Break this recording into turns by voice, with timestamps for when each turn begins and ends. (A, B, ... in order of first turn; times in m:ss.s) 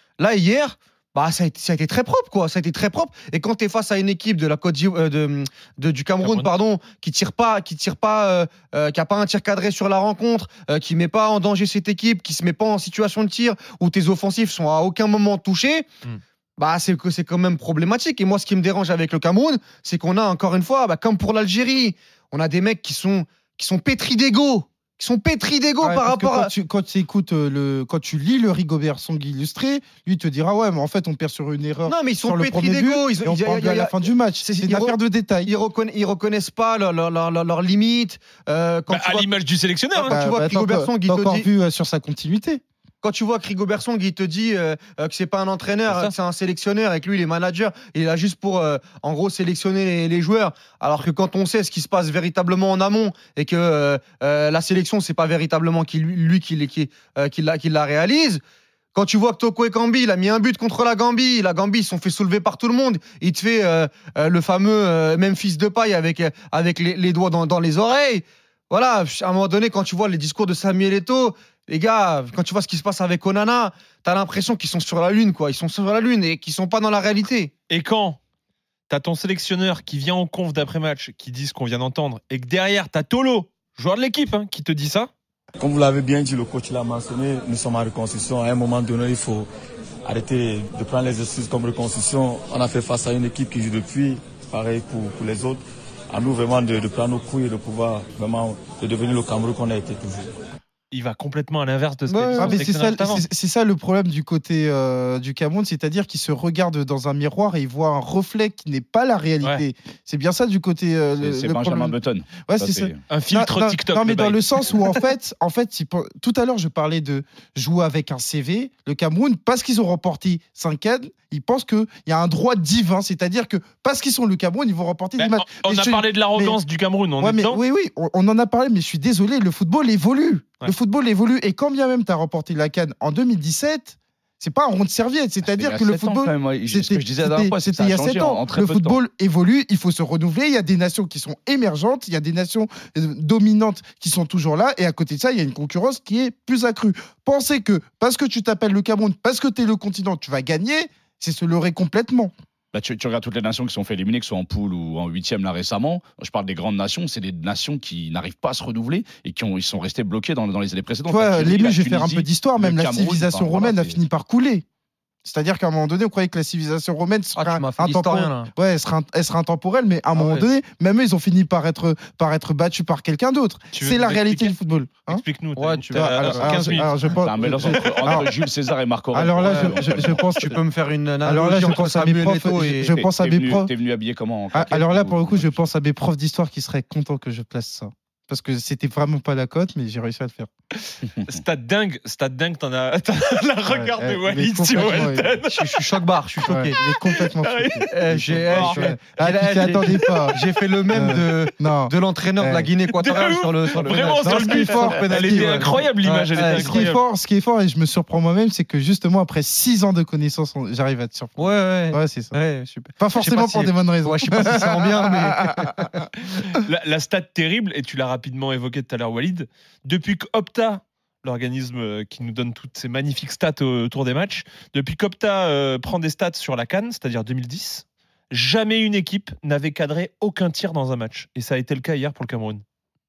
0:00.2-0:15.9 A
0:06.2-0:06.5 B
0:16.6-0:26.5 A
0:25.8-0:35.5 C
0:31.8-0:39.3 A
0:38.9-0:40.2 B
0:39.9-0:41.5 A
0:40.1-0:42.6 C
0:43.0-0:58.4 A
0:45.9-0:46.1 B
0:58.9-1:17.5 A
1:17.7-1:18.2 B
1:18.9-1:25.1 B
1:25.6-1:29.5 D
1:30.0-1:40.3 D
1:40.9-1:43.3 B
1:42.1-1:42.6 A
1:42.4-2:06.6 C
1:51.2-1:53.0 E
1:53.1-1:54.4 B
2:05.2-2:07.6 B
2:07.2-2:32.3 C
2:15.5-2:19.0 E
2:32.7-2:44.0 E
2:41.1-2:44.6 C
2:45.2-2:55.2 C
2:47.4-2:48.5 A
2:50.1-2:50.5 A
2:53.7-2:54.6 B
2:55.1-2:56.9 B
2:55.6-2:56.7 A
2:55.9-2:58.3 C
2:56.7-3:00.5 E
2:59.1-3:00.6 C
2:59.4-2:59.8 A
3:00.4-3:02.9 A
3:01.2-3:03.7 C
3:02.9-3:05.6 E
3:04.5-3:10.5 C
3:10.8-3:15.6 B
3:13.7-3:15.4 C
3:15.5-3:16.8 A
3:16.4-3:20.4 C
3:16.7-3:19.0 B
3:17.9-3:26.9 A
3:20.9-3:22.7 C
3:22.9-3:27.0 B
3:24.2-3:25.8 C
3:26.3-3:32.4 C
3:31.4-3:36.0 A
3:33.0-3:35.8 C
3:36.2-3:52.6 B